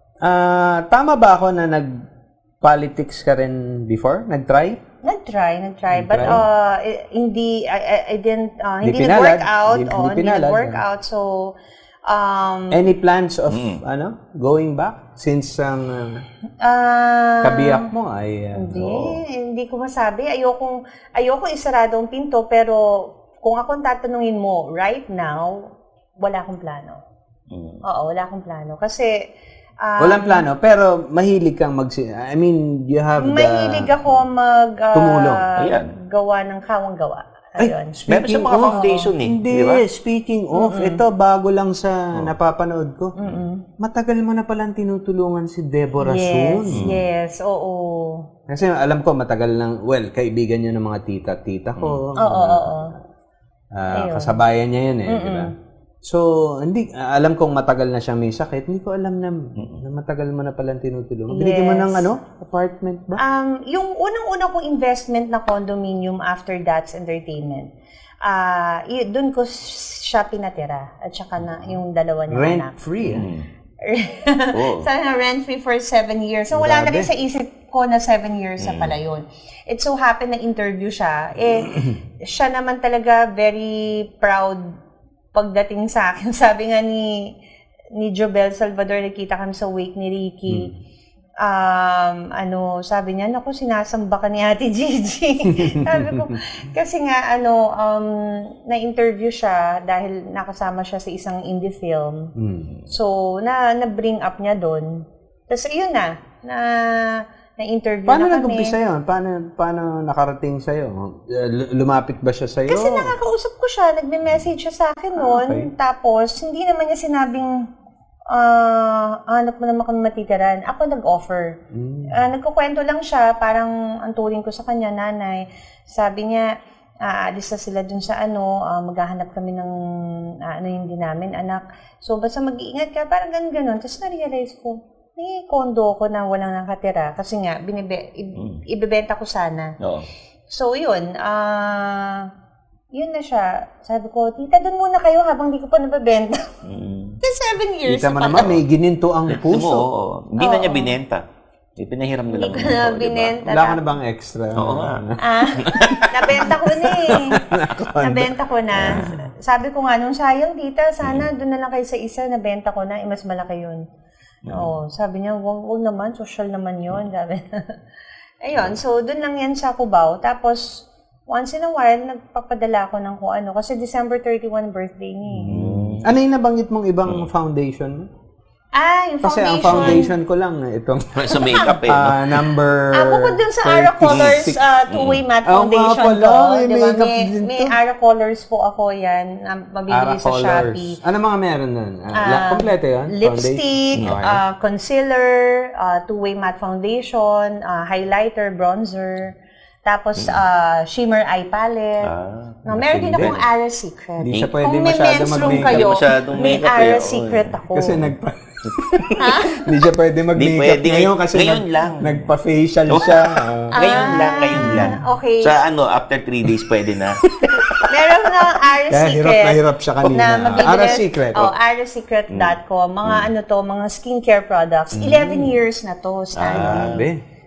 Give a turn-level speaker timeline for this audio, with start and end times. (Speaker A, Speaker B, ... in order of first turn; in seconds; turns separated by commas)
Speaker A: 0.2-1.9, Speaker A: 2.6-4.8, Speaker B: 5.0-12.8, Speaker A: 5.9-6.4, Speaker A: 8.8-10.8, Speaker A: 12.7-16.2, Speaker C: 13.5-13.8, Speaker B: 16.6-17.9, Speaker A: 17.4-19.0, Speaker B: 18.5-27.0, Speaker C: 18.7-19.2, Speaker C: 27.5-27.8, Speaker B: 27.8-29.2, Speaker B: 29.8-30.4, Speaker A: 30.0-33.9, Speaker B: 33.2-38.0, Speaker A: 34.9-35.5, Speaker C: 35.6-35.9, Speaker A: 37.6-43.2, Speaker C: 38.1-39.8, Speaker B: 38.7-39.1, Speaker B: 40.5-41.0, Speaker B: 43.1-43.6, Speaker A: 43.8-46.9, Speaker B: 46.0-48.3, Speaker C: 46.7-47.0, Speaker A: 48.5-52.8, Speaker B: 52.1-52.9, Speaker A: 53.7-55.5, Speaker B: 53.9-54.4, Speaker B: 55.1-55.5, Speaker A: 56.0-63.2, Speaker C: 59.6-59.8, Speaker B: 61.3-62.1, Speaker B: 63.2-67.7, Speaker B: 68.2-72.8, Speaker A: 72.3-73.3, Speaker C: 73.0-73.5, Speaker B: 73.8-84.8, Speaker C: 74.5-74.9, Speaker A: 76.5-77.1, Speaker C: 78.6-78.9, Speaker B: 85.3-87.3, Speaker B: 87.9-90.7, Speaker B: 91.4-102.3, Speaker A: 95.5-96.4, Speaker A: 102.4-102.7, Speaker B: 102.9-108.8, Speaker A: 108.1-113.2, Speaker B: 112.7-117.7, Speaker A: 115.2-115.7, Speaker B: 118.3-126.5, Speaker A: 121.7-122.2, Speaker B: 127.0-139.8, Speaker C: 138.3-138.6, Speaker C: 139.8-140.1, Speaker B: 140.5-142.3, Speaker B: 142.9-146.5, Speaker C: 146.6-147.2, Speaker B: 147.2-148.5, Speaker A: 147.9-149.9, Speaker C: 148.3-148.6, Speaker C: 149.3-151.2, Speaker B: 150.4-150.9, Speaker C: 151.8-153.3, Speaker B: 152.3-153.8, Speaker A: 153.4-155.2, Speaker C: 154.5-156.5, Speaker B: 155.2-157.4, Speaker A: 155.7-159.1, Speaker B: 158.0-163.8, Speaker C: 158.7-159.1, Speaker C: 161.0-161.3, Speaker C: 164.4-164.7, Speaker B: 164.5-167.7, Speaker B: 168.4-175.7, Speaker A: 175.3-178.1, Speaker C: 175.5-176.1, Speaker B: 178.7-180.1, Speaker A: 179.2-184.6, Speaker C: 179.6-180.1, Speaker C: 181.1-182.4, Speaker B: 181.4-181.8, Speaker B: 182.9-191.0, Speaker C: 184.1-185.2, Speaker A: 185.4-187.8, Speaker A: 189.9-194.4, Speaker B: 192.1-199.3, Speaker B: 199.8-202.1, Speaker C: 202.0-202.6, Speaker B: 202.7-208.0, Speaker A: 202.7-203.4, Speaker A: 204.2-205.9, Speaker C: 205.3-207.6, Speaker A: 207.7-215.0, Speaker C: 208.7-209.2, Speaker B: 209.2-209.6, Speaker C: 210.3-212.3, Speaker C: 212.9-217.9, Speaker B: 213.7-215.6, Speaker A: 217.4-217.9, Speaker B: 217.9-226.9, Speaker A: 218.9-221.5, Speaker C: 220.0-220.9, Speaker C: 222.3-223.3, Speaker A: 224.9-225.6, Speaker C: 226.3-227.1, Speaker A: 226.5-227.2